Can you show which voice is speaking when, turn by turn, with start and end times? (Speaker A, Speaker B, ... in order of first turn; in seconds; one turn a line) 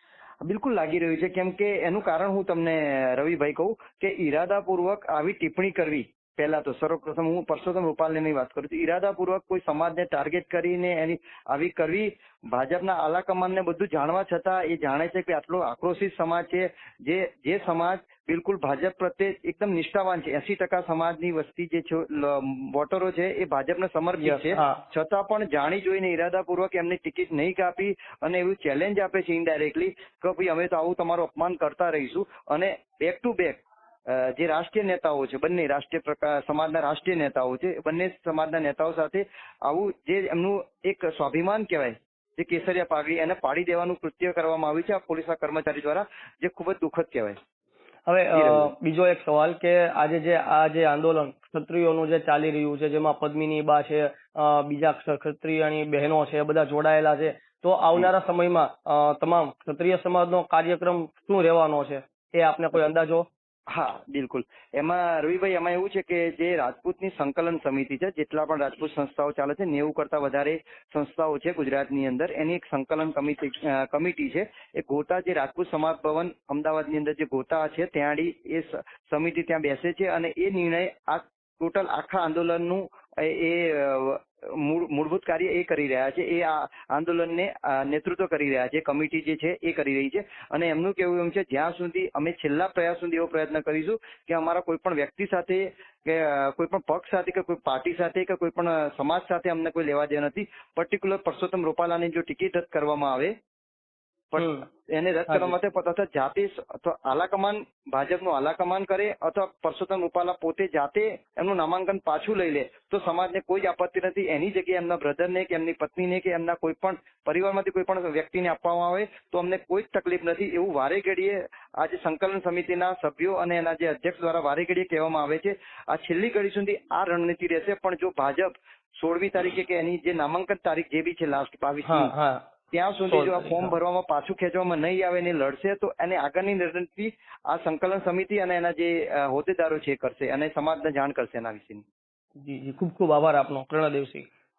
Speaker A: 0.4-47.4
Speaker B: 24.2-24.8
Speaker B: 48.1-63.3
Speaker A: 48.3-48.7
Speaker A: 63.7-103.3
Speaker A: 104.3-132.1
Speaker B: 104.4-104.6
Speaker B: 105.3-105.5
Speaker B: 131.9-132.4
Speaker A: 132.7-141.8
Speaker B: 133.1-133.8
Speaker B: 142.4-144.3